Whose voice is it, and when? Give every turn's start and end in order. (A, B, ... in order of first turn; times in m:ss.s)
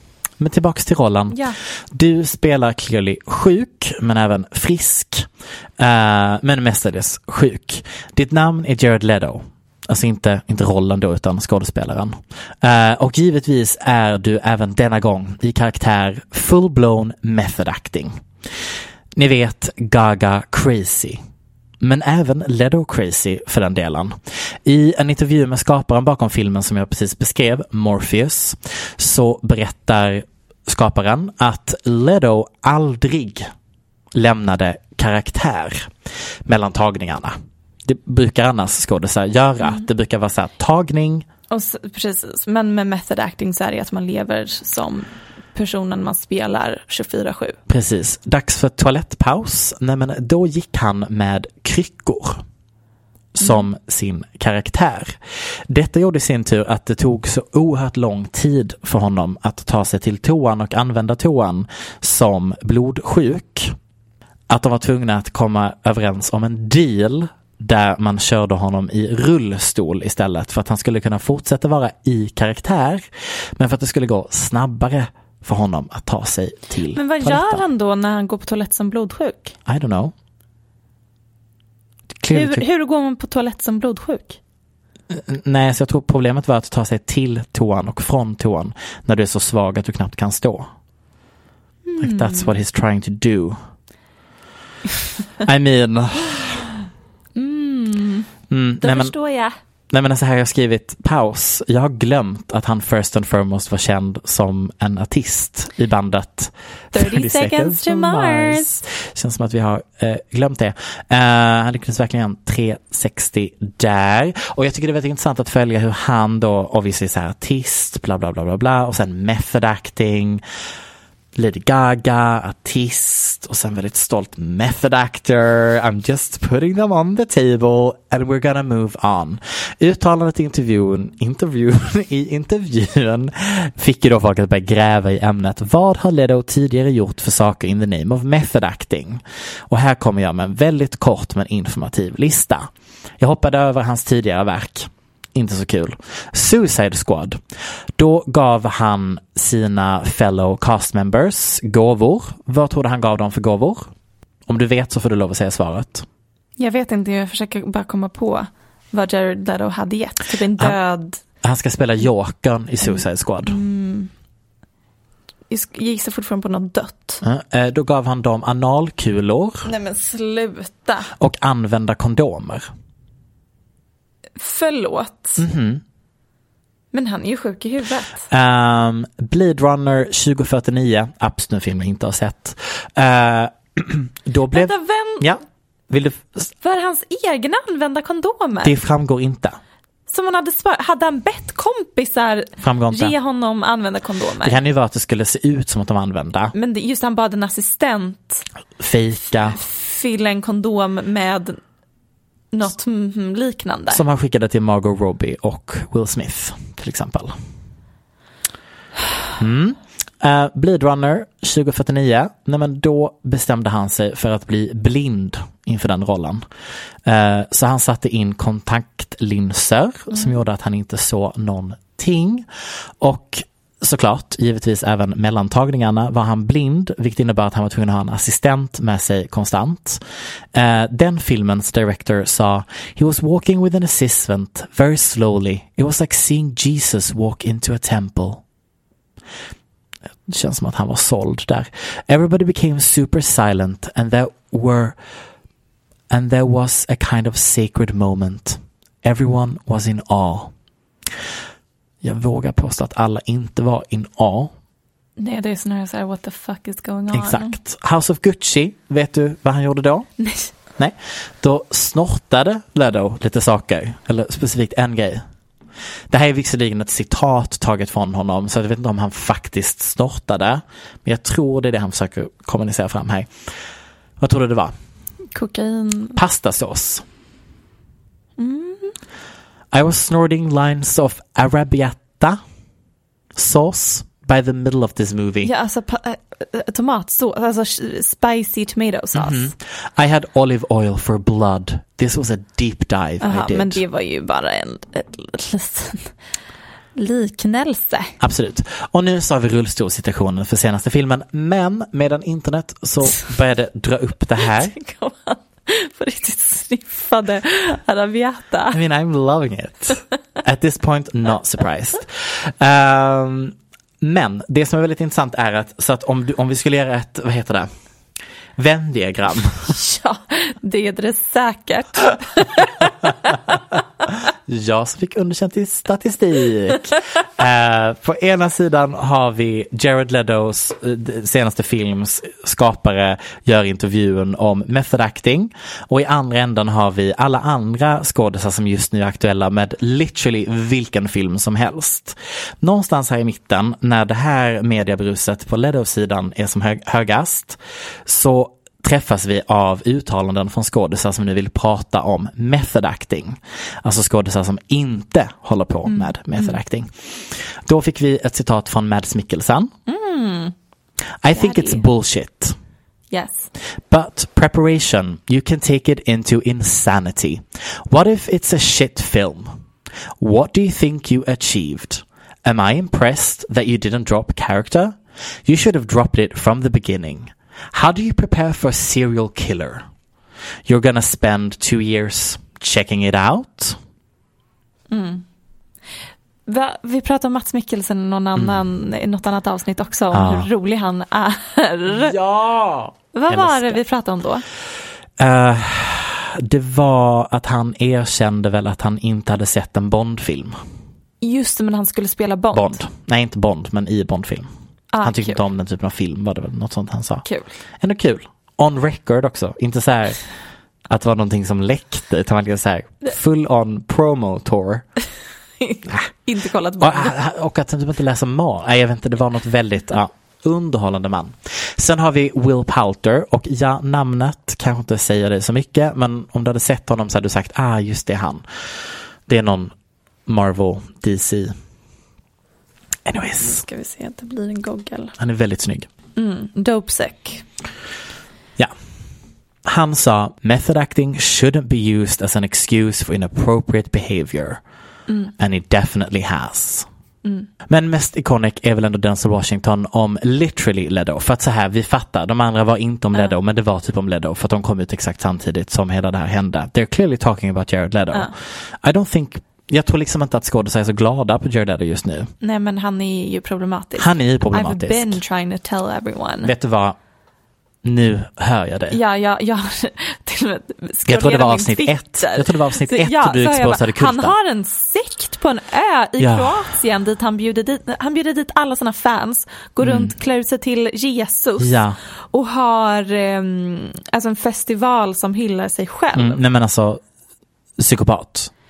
0:00.4-0:18.2 A
0:01.3-0:01.6 B
0:19.1-0:21.2 A
0:21.8-0:33.5 A
0:34.1-0:35.9 A
0:36.4-0:37.3 A
0:37.8-0:41.2 A
0:41.5-0:47.6 B
0:47.7-0:52.4 A
0:53.3-0:55.2 A
0:55.7-1:03.7 A
1:04.5-1:17.6 A
1:16.9-1:19.6 B
1:19.6-1:20.1 A
1:22.2-1:22.6 A
1:22.3-1:24.4 B
1:25.1-1:30.7 A
1:31.8-1:32.5 B
1:32.0-1:33.6 A
1:35.4-1:36.6 A
1:37.4-1:38.3 B
1:38.5-1:39.1 A
1:38.8-1:39.5 B
1:39.9-2:00.4 A
1:46.9-1:48.7 B
2:01.3-2:27.4 A
2:28.0-2:33.9 A
2:34.5-2:36.0 A
2:36.6-2:41.2 B
2:41.4-2:43.6 A
2:42.8-2:44.1 B
2:45.5-2:47.2 B
2:47.2-2:49.7 A
2:49.6-2:51.1 B
2:51.2-2:52.7 A
2:54.4-2:55.4 B
2:55.4-2:55.8 A
2:56.9-2:58.2 B
2:58.3-3:06.5 A
3:04.5-3:05.3 B
3:06.6-3:08.8 B
3:08.6-3:09.6 A
3:10.1-3:14.6 B
3:12.6-3:13.1 A
3:14.4-3:16.5 A
3:16.5-3:18.4 B
3:18.8-3:19.6 A
3:19.5-3:21.6 B
3:22.5-3:24.0 B
3:23.9-3:27.4 A
3:29.4-3:36.4 A
3:37.0-3:42.4 A
3:43.0-3:50.0 A
3:50.5-3:58.4 A
4:00.3-4:05.0 A
4:06.1-4:10.5 A
4:12.0-4:14.5 A
4:15.2-4:17.6 B
4:17.1-4:20.1 A
4:20.2-4:20.5 B
4:20.8-4:25.2 A
4:26.1-4:33.3 A
4:34.2-4:34.7 A
4:35.3-4:36.2 B
4:36.1-4:37.0 A
4:38.4-4:39.0 B
4:39.7-4:42.4 A
4:43.3-4:45.5 A
4:45.4-4:49.5 B
4:49.1-4:53.8 A
4:53.2-4:56.1 B
4:56.9-4:58.2 B
4:58.2-5:04.7 A
5:04.6-5:08.8 B
5:08.7-5:17.7 A
5:18.6-5:19.7 A
5:19.7-5:22.9 B
5:24.5-5:59.7 A
5:55.8-5:56.6 B
5:59.9-6:00.5 B
6:01.2-6:02.5 A
6:01.3-6:01.8 B
6:03.1-6:03.5 B
6:03.9-6:09.5 A
6:10.2-6:19.8 A
6:20.6-6:23.8 A
6:24.9-6:25.2 B
6:26.5-6:32.2 B
6:30.1-6:30.5 A
6:31.9-6:33.8 A
6:33.1-6:34.4 B
6:35.2-6:40.6 A
6:41.2-6:42.8 B
6:42.5-6:44.5 A
6:44.9-6:45.4 B
6:45.0-6:47.2 A
6:47.2-6:47.5 B
6:47.8-6:50.2 A
6:50.9-6:54.8 A
6:55.6-6:57.1 B
6:56.8-7:08.4 A
7:09.3-7:09.7 A
7:10.2-7:11.5 A
7:13.0-7:13.6 A
7:13.4-7:15.1 B
7:15.2-7:15.9 A
7:16.2-7:17.4 B
7:19.6-7:24.6 A
7:25.4-7:26.9 A
7:27.7-7:42.3 A
7:42.4-7:46.5 B
7:44.0-7:45.2 A
7:46.4-7:47.0 A
7:47.8-7:49.0 A
7:48.9-8:01.8 B
7:51.0-7:54.3 A
7:56.2-7:56.7 A
7:59.8-8:00.1 A
8:01.6-8:02.0 A
8:02.3-8:06.4 B
8:06.1-8:07.0 A
8:07.8-8:08.5 A